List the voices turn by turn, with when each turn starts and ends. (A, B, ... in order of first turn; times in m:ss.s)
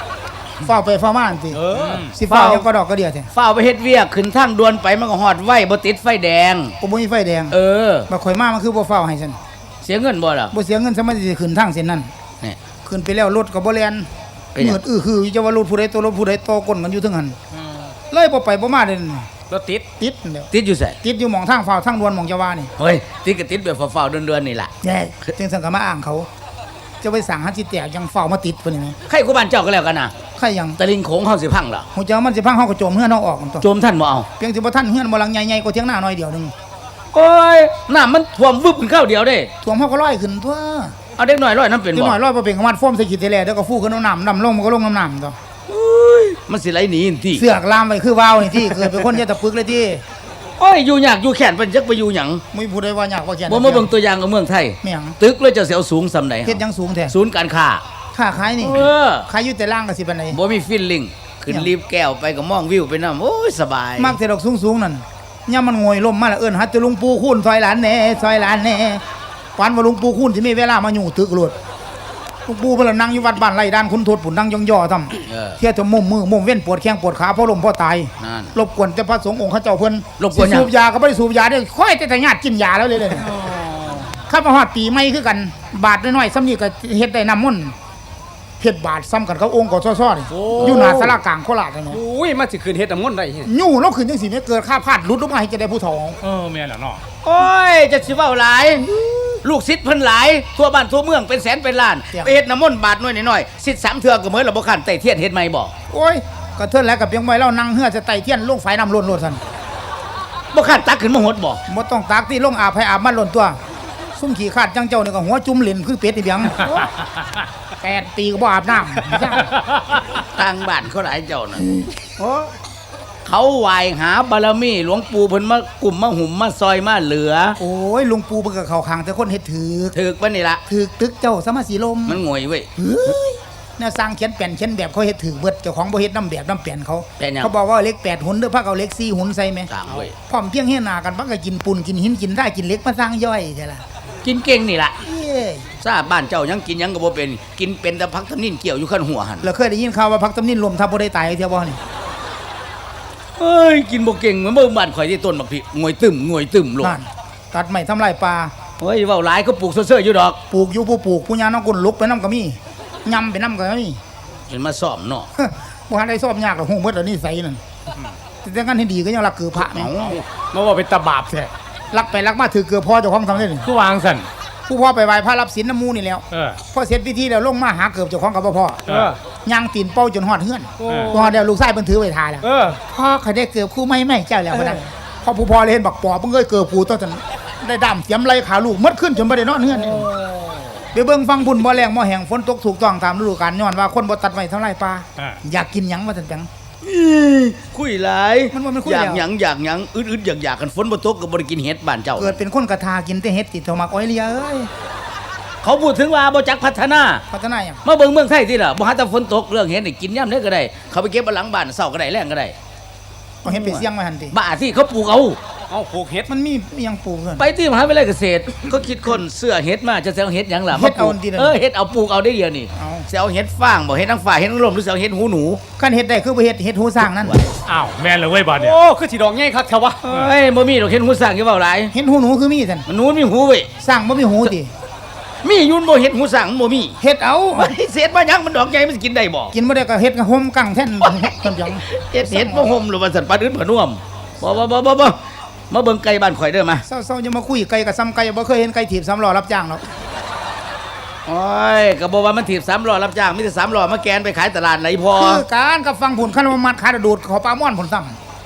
0:00.6-0:01.6 A
0:01.5-0:02.1 B
0:01.8-0:02.2 C
0:02.1-0:03.3 A
0:02.3-0:02.7 D
0:03.3-0:06.8 D
0:06.8-0:07.6 A
0:07.5-0:08.1 D
0:08.1-0:09.4 A
0:09.8-0:10.5 D
0:10.5-0:12.1 A
0:12.8-0:17.4 A
0:18.1-0:19.3 A
0:20.0-0:20.5 A
0:20.5-0:21.0 D
0:21.0-0:22.7 A
0:22.8-0:24.7 D
0:24.8-0:26.3 A
0:27.0-0:29.0 A
0:29.1-0:30.2 D
0:30.4-0:30.8 A
0:30.8-0:31.9 D
0:31.9-0:33.6 A
0:33.6-0:34.3 D
0:34.4-0:36.5 A
0:37.1-0:39.5 D
0:39.6-0:40.9 A
0:41.2-0:42.2 D
0:41.9-0:45.4 A
0:45.7-0:47.5 D
0:47.3-0:50.0 A
0:50.6-0:52.4 D
0:52.5-0:53.9 A
0:53.5-0:57.8 D
0:54.8-0:55.2 A
0:56.5-0:57.2 A
0:58.1-1:00.4 A
0:58.6-0:59.3 D
1:00.3-1:04.2 D
1:04.0-1:09.0 A
1:09.6-1:11.5 A
1:12.5-1:23.4 A
1:15.3-1:15.6 D
1:18.2-1:18.5 D
1:20.2-1:20.7 D
1:23.4-1:24.1 B
1:24.2-1:27.8 A
1:28.6-1:32.0 A
1:30.3-1:31.0 B
1:30.6-1:31.1 D
1:31.9-1:33.5 B
1:33.4-1:36.2 A
1:36.2-1:37.0 C
1:37.2-1:45.7 D
1:42.1-1:42.4 A
1:45.9-1:49.4 A
1:50.5-1:51.6 D
1:51.7-1:53.6 A
1:54.2-1:56.7 A
1:56.6-1:56.9 C
1:57.8-1:59.5 A
1:59.7-2:00.0 C
2:00.2-2:01.7 D
2:01.6-2:02.1 A
2:03.2-2:07.6 D
2:07.6-2:10.0 A
2:09.9-2:10.6 D
2:10.7-2:12.2 A
2:12.1-2:12.7 D
2:12.8-2:19.7 A
2:17.2-2:17.5 D
2:19.7-2:20.1 D
2:20.3-2:23.8 A
2:24.2-2:25.0 D
2:25.0-2:25.7 A
2:25.8-2:29.5 D
2:29.4-2:31.8 A
2:33.4-2:37.0 D
2:36.8-2:38.5 A
2:38.8-2:40.4 D
2:40.5-2:44.0 A
2:44.5-2:45.3 D
2:45.4-2:47.6 A
2:48.4-2:49.9 A
2:49.7-2:50.2 D
2:50.1-2:51.5 B
2:51.9-2:53.7 A
2:53.6-2:54.3 C
2:54.7-2:58.8 A
2:56.3-2:56.6 C
2:58.9-2:59.1 C
2:58.9-2:59.2 B
2:59.4-3:10.1 A
3:00.8-3:01.4 B
3:02.4-3:02.8 B
3:04.6-3:04.8 B
3:10.0-3:10.6 B
3:10.9-3:16.5 A
3:16.8-3:22.4 D
3:18.5-3:19.3 A
3:22.2-3:24.7 A
3:25.6-3:27.2 D
3:27.3-3:27.8 A
3:27.8-3:32.6 D
3:33.4-3:34.4 A
3:33.5-3:35.4 D
3:35.7-3:36.3 B
3:36.3-3:37.5 A
3:37.4-3:45.6 D
3:40.7-3:41.6 A
3:42.8-3:43.1 A
3:45.8-3:47.4 A
3:47.1-3:47.5 D
3:47.7-3:48.8 C
3:48.6-3:50.0 B
3:50.0-3:51.9 D
3:50.1-3:50.3 C
3:51.9-3:52.9 A
3:52.9-3:53.7 D
3:53.8-3:54.7 A
3:55.4-3:57.0 D
3:57.0-3:57.8 A
3:57.5-3:59.5 D
3:59.5-4:02.8 A
4:01.8-4:05.2 D
4:05.7-4:06.8 D
4:06.9-4:09.8 A
4:11.3-4:15.4 D
4:15.2-4:18.2 A